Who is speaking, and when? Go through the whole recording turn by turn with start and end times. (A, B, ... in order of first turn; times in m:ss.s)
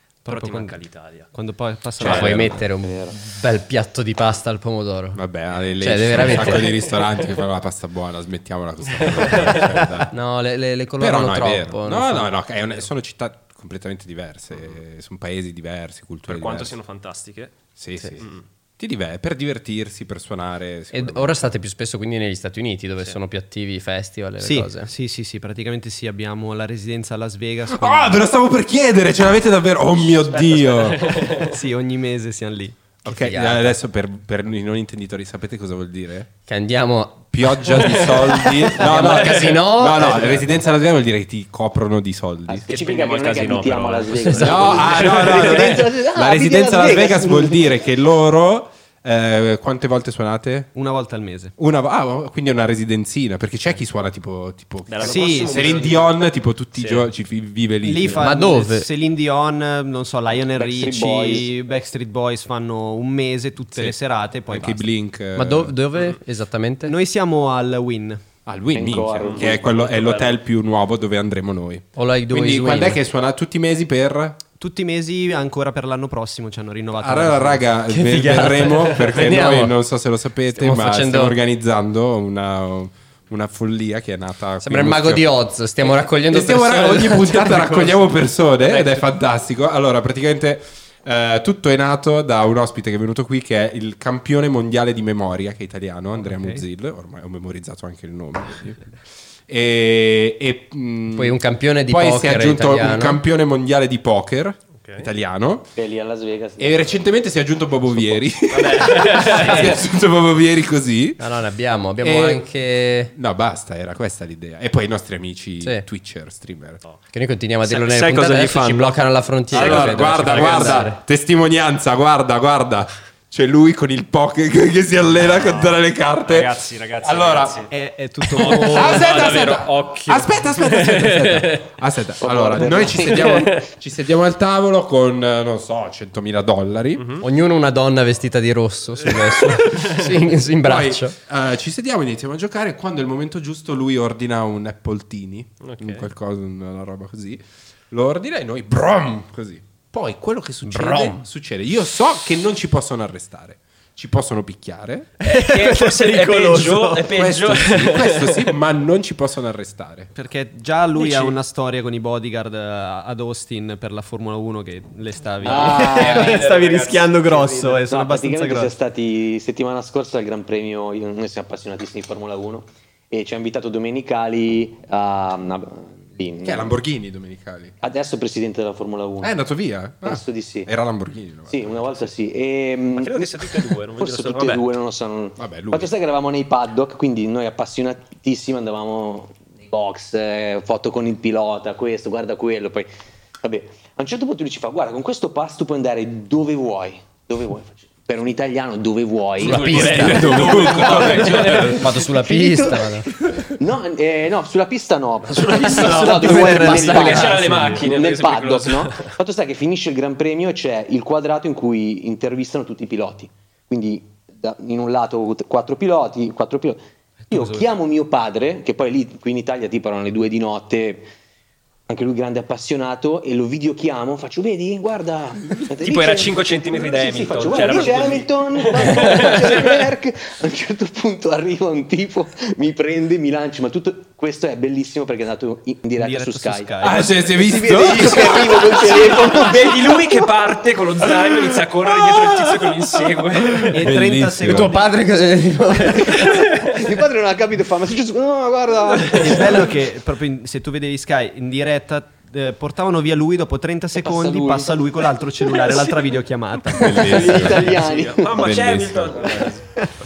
0:00.2-0:01.3 A
0:00.3-0:02.7 B
0:02.0-0:02.5 C
0:02.0-0:05.2 D
0:02.8-0:03.2 E
0:05.2-0:10.1 C
0:05.8-0:06.8 D
0:09.0-0:09.7 A
0:10.1-0:12.3 D
0:11.0-0:16.8 C
0:16.3-0:18.4 A
0:17.8-0:21.5 C
0:20.9-0:24.9 D
0:24.4-0:28.3 B
0:27.7-0:31.1 C
0:30.1-0:31.6 A
0:31.3-0:32.8 B
0:33.0-0:36.3 C
0:33.1-0:33.7 D
0:36.5-0:37.8 D
0:37.3-0:42.7 C
0:37.7-0:40.4 A
0:38.6-0:40.4 D
0:42.5-0:47.7 E
0:42.7-0:45.8 A
0:44.2-0:44.7 D
0:44.4-0:50.7 C
0:50.8-0:51.5 B
0:51.6-0:58.4 C
0:54.9-0:57.1 A
0:55.0-0:55.8 B
0:57.8-1:04.9 B
0:58.2-0:58.9 D
1:00.6-1:01.5 E
1:04.5-1:05.8 C
1:05.4-1:07.0 D
1:06.9-1:08.2 B
1:08.5-1:14.4 C
1:08.7-1:09.6 E
1:09.2-1:10.4 A
1:12.0-1:13.0 D
1:14.6-1:17.7 B
1:17.0-1:25.3 C
1:17.9-1:19.8 D
1:20.6-1:21.4 D
1:24.6-1:28.0 D
1:25.8-1:45.7 C
1:28.6-1:29.1 A
1:36.2-1:36.6 B
1:41.1-1:43.2 D
1:44.8-1:45.1 A
1:45.8-1:47.0 E
1:46.6-1:51.3 C
1:48.5-1:49.8 A
1:51.2-1:53.1 D
1:52.0-1:52.5 C
1:53.1-1:56.8 C
1:57.1-2:01.0 D
1:57.7-2:00.9 A
1:59.5-2:07.6 C
2:05.2-2:07.7 A
2:07.7-2:09.2 B
2:08.3-2:11.7 A
2:08.4-2:17.1 C
2:12.2-2:13.5 E
2:13.0-2:13.7 A
2:17.0-2:17.3 A
2:17.2-2:21.2 D
2:19.1-2:19.9 A
2:20.6-2:35.1 C
2:25.6-2:26.1 A
2:30.7-2:31.2 D
2:35.2-2:37.1 B
2:35.2-2:38.6 A
2:37.1-2:40.1 C
2:40.1-2:48.7 B
2:41.0-2:41.4 A
2:45.4-2:46.5 E
2:45.4-2:47.8 A
2:47.8-2:56.8 E
2:56.4-2:57.8 C
2:57.8-2:59.3 E
2:59.2-3:01.7 C
3:00.0-3:00.7 E
3:01.5-3:12.9 E
3:02.9-3:04.7 A
3:05.4-3:05.9 C
3:13.4-3:36.8 E
3:19.4-3:22.0 A
3:19.4-3:23.2 D
3:19.9-3:21.9 C
3:25.3-3:29.1 A
3:25.5-3:27.6 D
3:26.0-3:27.9 B
3:37.3-3:37.7 B
3:37.3-3:41.1 E
3:41.9-4:00.3 E
3:45.8-3:49.8 A
3:56.0-3:58.0 B
3:56.8-3:58.8 C
3:58.6-4:03.9 A
4:01.3-4:04.8 C
4:03.7-4:04.9 B
4:04.4-4:06.5 D
4:06.2-4:06.7 A
4:06.2-4:09.8 E
4:09.1-4:17.6 B
4:14.0-4:16.0 E
4:16.7-4:17.8 C
4:17.0-4:19.7 A
4:17.0-4:18.5 E
4:18.3-4:19.6 C